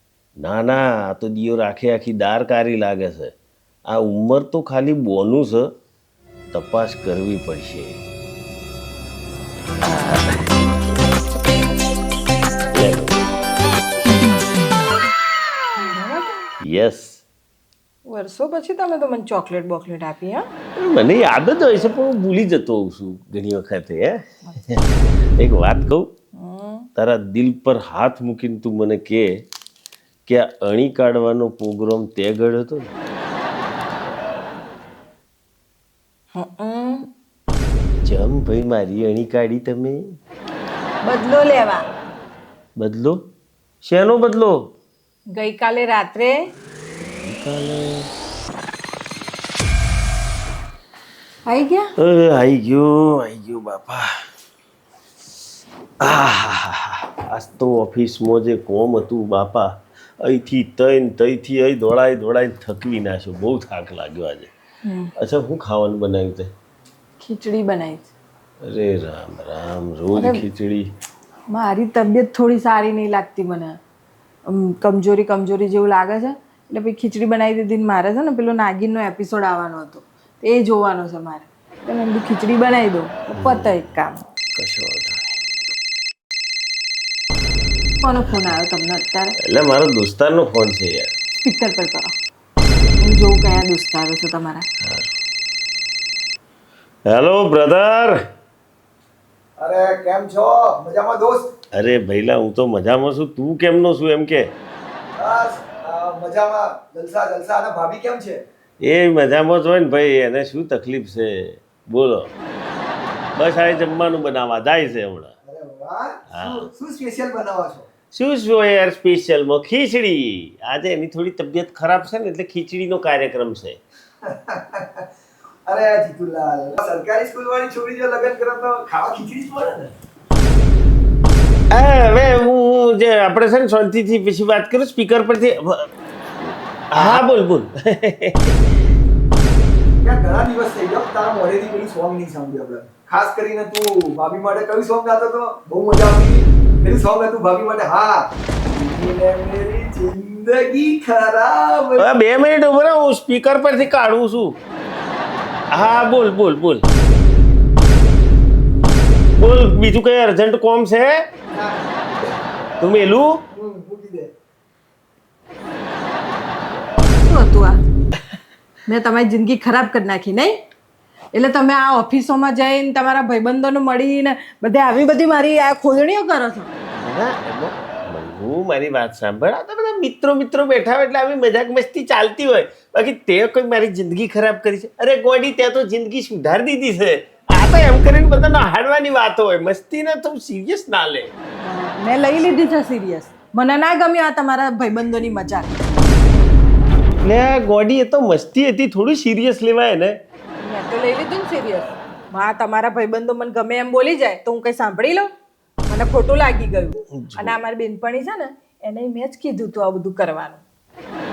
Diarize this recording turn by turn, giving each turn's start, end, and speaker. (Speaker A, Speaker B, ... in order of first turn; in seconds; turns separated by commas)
Speaker A: 0.4-3.3, Speaker A: 3.9-5.7, Speaker A: 6.5-8.0, Speaker A: 9.8-10.7, Speaker A: 12.7-13.2, Speaker B: 15.8-16.4, Speaker A: 16.6-17.2, Speaker B: 18.1-20.4, Speaker A: 20.8-26.1, Speaker B: 26.4-26.9, Speaker A: 26.9-29.3, Speaker A: 30.3-32.9, Speaker B: 36.3-37.1, Speaker A: 38.0-40.0, Speaker B: 41.0-41.8, Speaker A: 42.8-43.2, Speaker A: 43.8-44.5, Speaker B: 45.3-46.4, Speaker A: 47.2-48.1, Speaker B: 51.5-51.9, Speaker A: 52.0-54.1, Speaker A: 56.0-64.5, Speaker B: 64.8-65.1, Speaker A: 65.2-66.5, Speaker B: 67.2-68.1, Speaker A: 68.6-70.9, Speaker B: 70.1-70.4, Speaker B: 71.5-73.8, Speaker B: 74.5-84.2, Speaker A: 83.3-83.7, Speaker A: 84.5-85.3, Speaker B: 88.0-89.3, Speaker A: 89.4-91.1, Speaker B: 91.4-92.1, Speaker B: 93.0-94.6, Speaker A: 94.8-95.1, Speaker A: 97.1-98.2, Speaker C: 99.6-101.5, Speaker A: 101.8-104.5, Speaker C: 105.2-108.4, Speaker A: 108.8-112.3, Speaker A: 113.3-115.3, Speaker C: 115.4-117.8, Speaker A: 116.3-116.7, Speaker A: 118.1-123.8, Speaker C: 124.3-125.0, Speaker C: 125.7-129.9, Speaker A: 131.7-135.9, Speaker A: 136.4-138.6, Speaker C: 140.0-152.0, Speaker A: 152.0-154.6, Speaker A: 155.7-156.8, Speaker A: 159.4-161.2, Speaker C: 161.5-161.9, Speaker A: 162.8-163.4, Speaker C: 163.5-164.3, Speaker B: 167.1-167.8, Speaker B: 168.9-170.6, Speaker B: 171.3-176.7, Speaker A: 176.9-191.3, Speaker B: 191.6-195.8, Speaker A: 197.2-200.1, Speaker B: 200.6-205.3, Speaker B: 205.8-210.6, Speaker A: 207.1-207.6